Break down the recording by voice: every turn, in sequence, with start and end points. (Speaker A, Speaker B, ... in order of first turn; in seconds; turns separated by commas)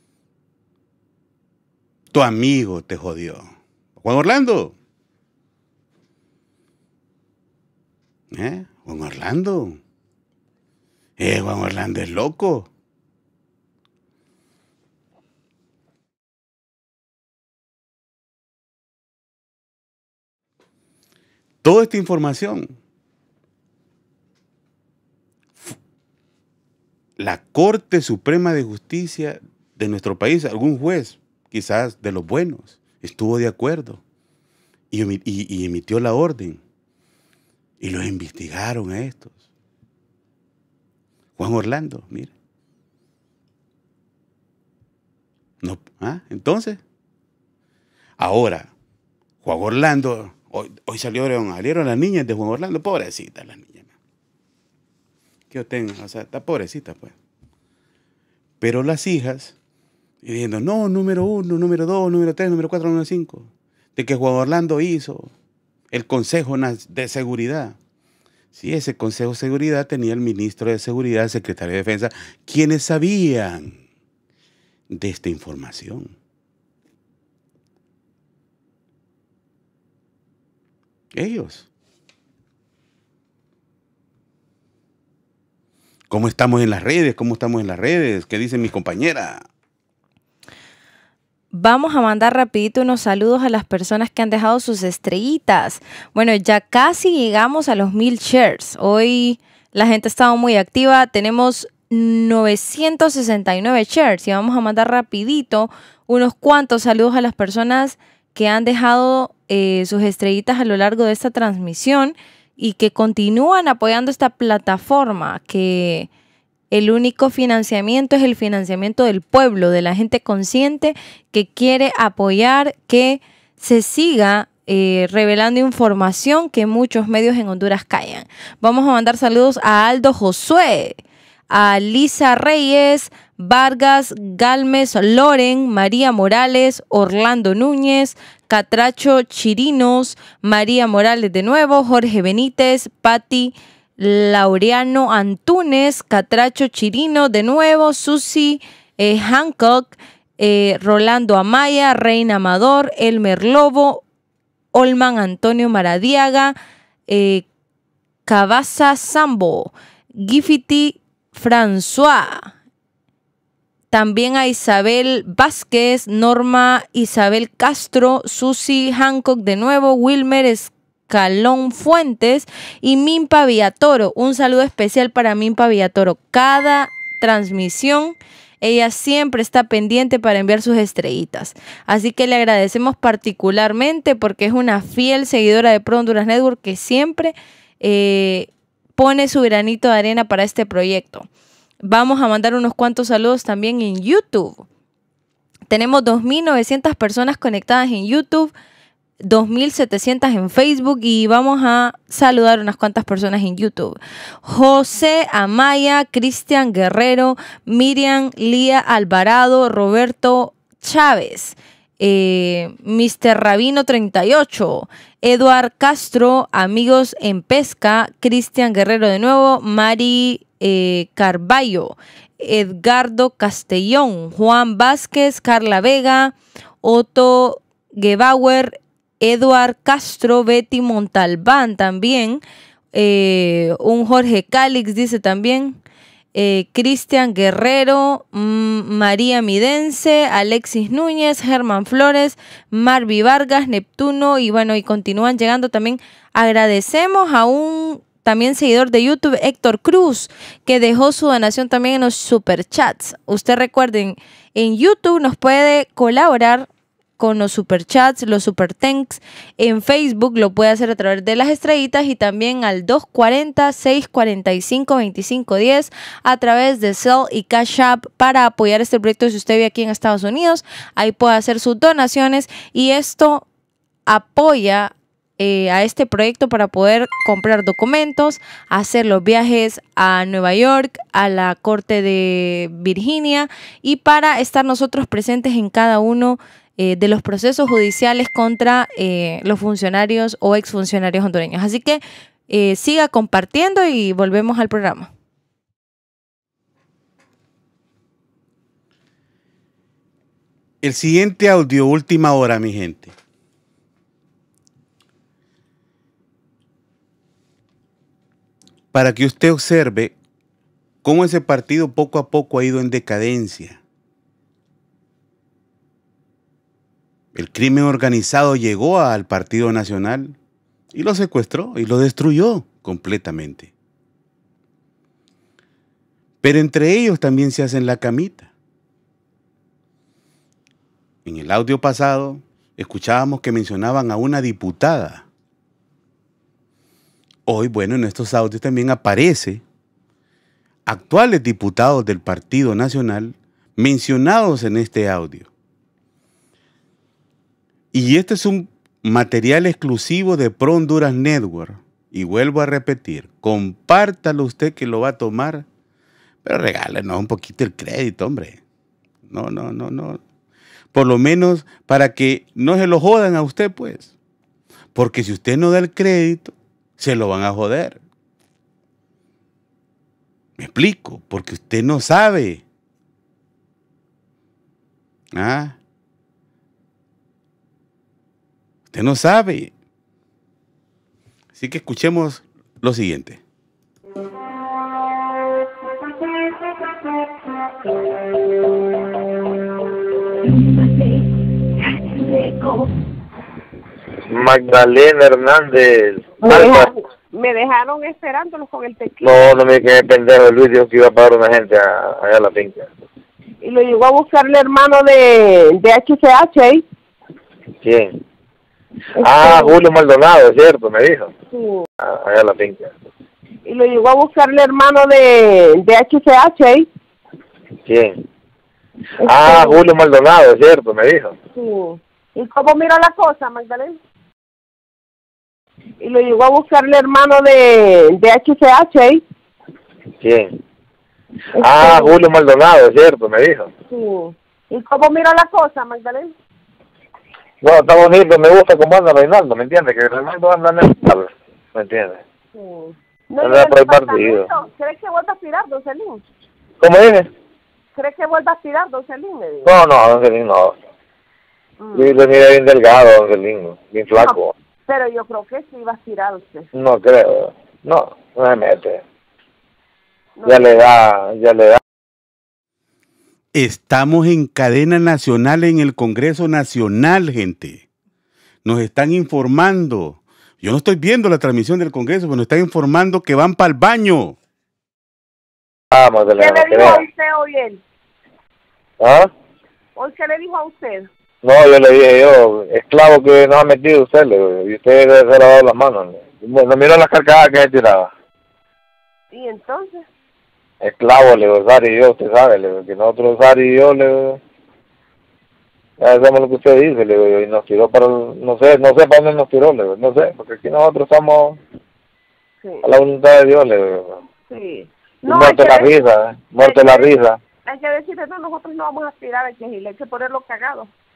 Speaker A: 2.1-4.8, Speaker A: 8.3-9.8, Speaker A: 11.2-12.7, Speaker A: 21.6-22.8, Speaker A: 27.2-34.0, Speaker A: 34.9-36.6, Speaker A: 37.8-39.3, Speaker A: 41.4-42.3, Speaker A: 45.6-46.8, Speaker A: 48.2-48.7, Speaker A: 49.4-53.9, Speaker A: 55.5-57.1, Speaker A: 58.6-59.5, Speaker A: 60.2-65.3, Speaker A: 65.9-67.8, Speaker A: 68.5-73.8, Speaker A: 74.9-76.1, Speaker A: 81.1-81.7, Speaker A: 86.1-89.5, Speaker B: 91.5-116.1, Speaker B: 116.7-131.0, Speaker B: 131.5-154.0, Speaker B: 154.7-156.6, Speaker B: 157.1-157.4, Speaker B: 158.3-162.5, Speaker B: 163.9-191.3, Speaker B: 191.9-194.7, Speaker B: 195.7-198.5, Speaker B: 199.3-232.4, Speaker B: 232.9-235.8, Speaker B: 236.3-256.7, Speaker B: 257.2-273.4, Speaker B: 274.1-295.1, Speaker A: 300.8-303.1, Speaker A: 308.9-310.1, Speaker A: 311.0-313.8, Speaker A: 317.4-320.4, Speaker A: 320.9-323.7, Speaker A: 326.4-328.5, Speaker A: 331.2-335.2, Speaker A: 337.5-339.6, Speaker A: 340.9-345.5, Speaker A: 347.9-355.7, Speaker A: 356.4-358.6, Speaker A: 359.3-360.2, Speaker A: 360.9-364.1, Speaker A: 364.9-368.0, Speaker A: 370.6-372.6, Speaker A: 375.4-375.8, Speaker A: 378.9-379.7, Speaker A: 381.6-383.4, Speaker C: 394.3-396.9, Speaker D: 396.4-399.4, Speaker C: 399.2-402.9, Speaker D: 403.6-406.9, Speaker C: 407.8-408.2, Speaker D: 409.2-409.8, Speaker C: 409.2-411.3, Speaker D: 411.5-411.9, Speaker C: 412.0-412.9, Speaker D: 413.7-416.9, Speaker C: 417.9-418.2, Speaker D: 419.2-419.8, Speaker C: 419.2-421.4, Speaker D: 421.5-424.0, Speaker D: 426.0-429.2, Speaker C: 430.2-430.6, Speaker D: 431.6-432.2, Speaker C: 431.6-433.7, Speaker D: 433.9-436.3, Speaker C: 437.6-442.2, Speaker D: 442.5-446.2, Speaker C: 443.4-444.5, Speaker C: 446.8-447.3, Speaker D: 448.0-449.7, Speaker C: 449.6-450.8, Speaker D: 451.8-452.2, Speaker C: 451.9-454.5, Speaker D: 454.1-456.7, Speaker C: 456.8-459.0, Speaker D: 460.4-460.8, Speaker C: 460.5-461.8, Speaker A: 463.5-467.9, Speaker A: 468.6-474.4, Speaker C: 475.9-477.0, Speaker D: 476.4-477.8, Speaker C: 479.0-479.3, Speaker D: 480.0-481.1, Speaker C: 481.4-488.1, Speaker D: 489.3-490.0, Speaker C: 490.8-494.4, Speaker C: 496.0-501.6, Speaker C: 502.8-504.2, Speaker D: 504.5-505.9, Speaker C: 505.3-507.4, Speaker D: 506.6-507.1, Speaker D: 507.7-510.9